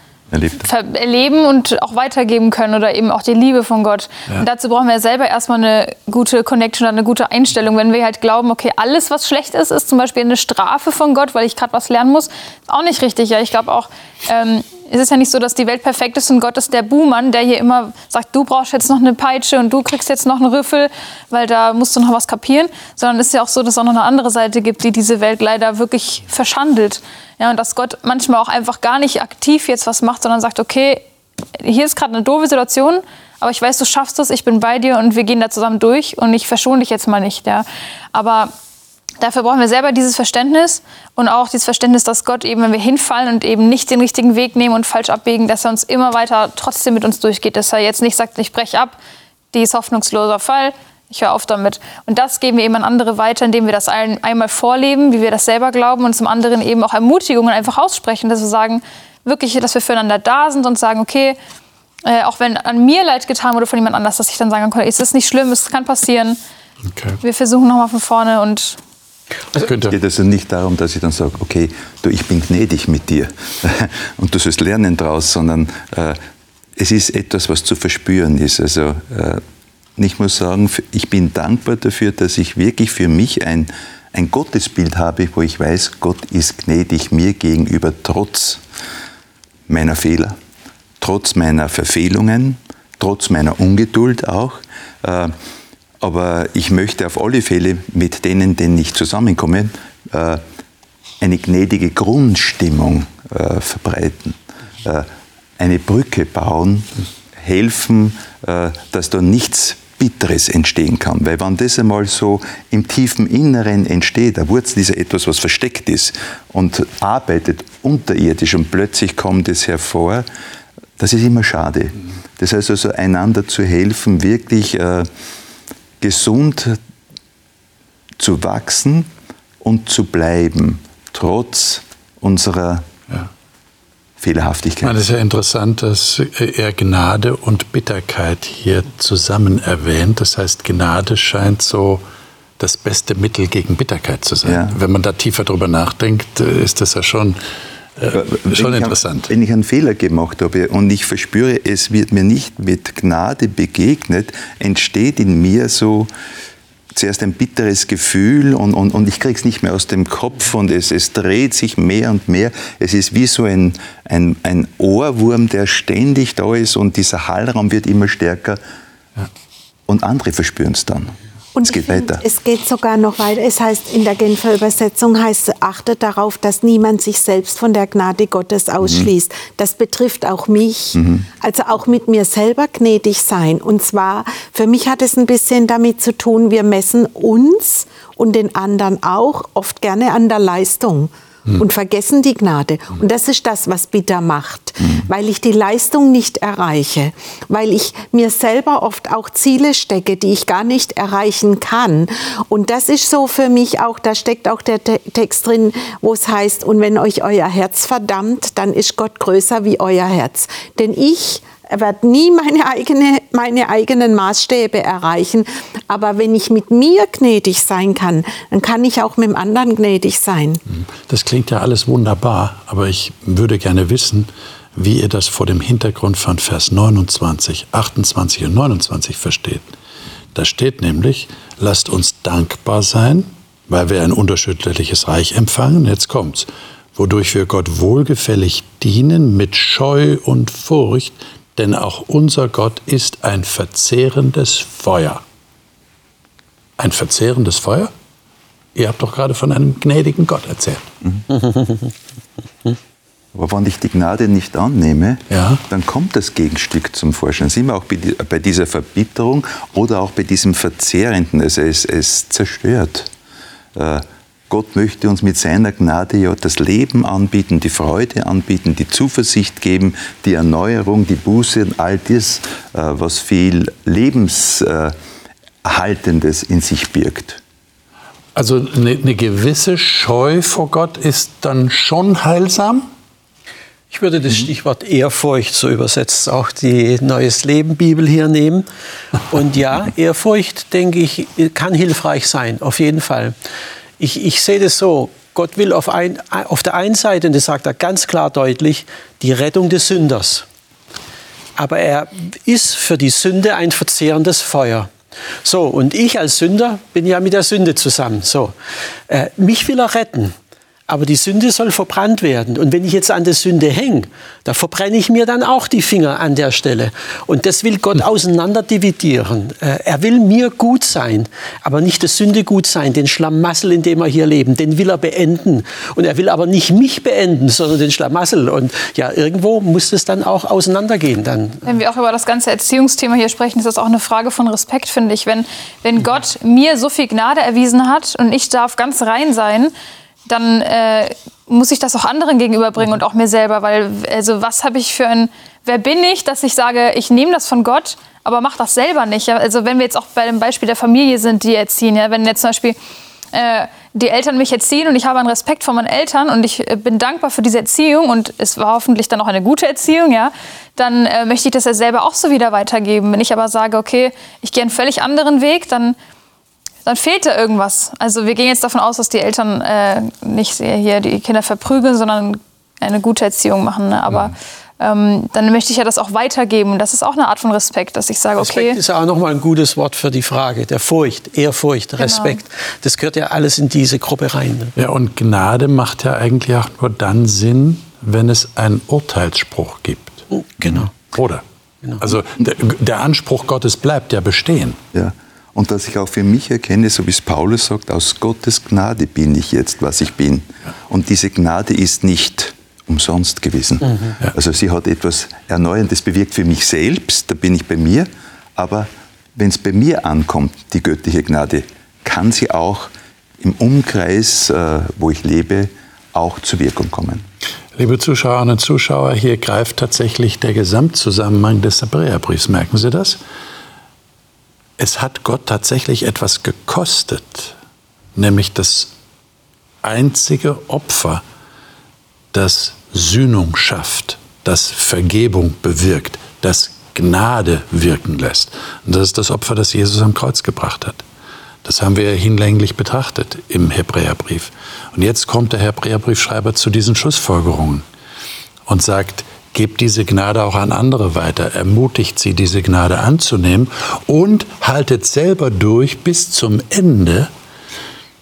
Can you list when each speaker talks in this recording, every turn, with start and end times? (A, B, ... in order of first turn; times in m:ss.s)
0:00.3-0:00.6 A
0:00.6-0:31.0 B
0:31.6-0:38.5 B
0:39.2-0:49.0 B
0:49.5-1:01.4 B
1:02.0-1:06.4 B
1:06.9-1:07.2 C
1:07.2-1:08.8 B
1:09.6-1:10.0 C
1:09.9-1:16.2 A
1:16.8-1:19.4 A
1:20.0-1:28.6 A
1:29.7-1:30.4 A
1:31.0-1:35.3 A
1:36.0-1:40.4 A
1:41.2-1:45.1 A
1:45.6-2:00.3 A
2:01.0-2:05.1 A
2:06.0-2:06.8 A
2:08.2-2:09.1 A
2:09.6-2:12.8 A
2:14.2-2:15.0 A
2:14.8-2:22.0 C
2:22.6-2:27.4 C
2:24.4-2:24.8 A
2:28.0-2:29.3 C
2:28.1-2:36.1 A
2:37.0-2:48.6 A
2:49.9-2:52.2 A
2:51.6-3:40.6 D
3:01.0-3:01.3 A
3:40.8-3:49.7 C
3:50.4-4:05.2 C
4:06.8-4:07.9 C
4:08.8-4:10.9 C
4:11.3-4:11.8 E
4:13.3-4:23.1 A
4:15.3-4:15.6 C
4:23.8-4:34.9 A
4:35.6-4:37.4 A
4:38.4-4:42.9 C
4:43.9-4:48.7 E
4:49.3-4:53.4 E
4:54.0-5:00.4 E
5:01.6-5:04.9 E
5:05.4-5:08.5 E
5:09.1-5:10.4 E
5:10.9-5:31.7 E
5:31.6-5:39.7 B
5:40.3-5:52.8 B
5:53.3-6:06.0 B
6:06.8-6:18.8 B
6:18.4-6:24.7 E
6:22.0-6:22.4 B
6:24.8-6:31.4 C
6:30.6-6:30.9 E
6:32.0-6:34.8 C
6:34.9-6:52.9 A
6:53.4-6:57.2 A
6:57.8-7:03.2 C
7:04.8-7:07.6 C
7:08.2-7:08.9 C
7:09.8-7:11.2 C
7:12.3-7:21.0 C
7:21.6-7:27.8 C
7:28.7-7:37.3 C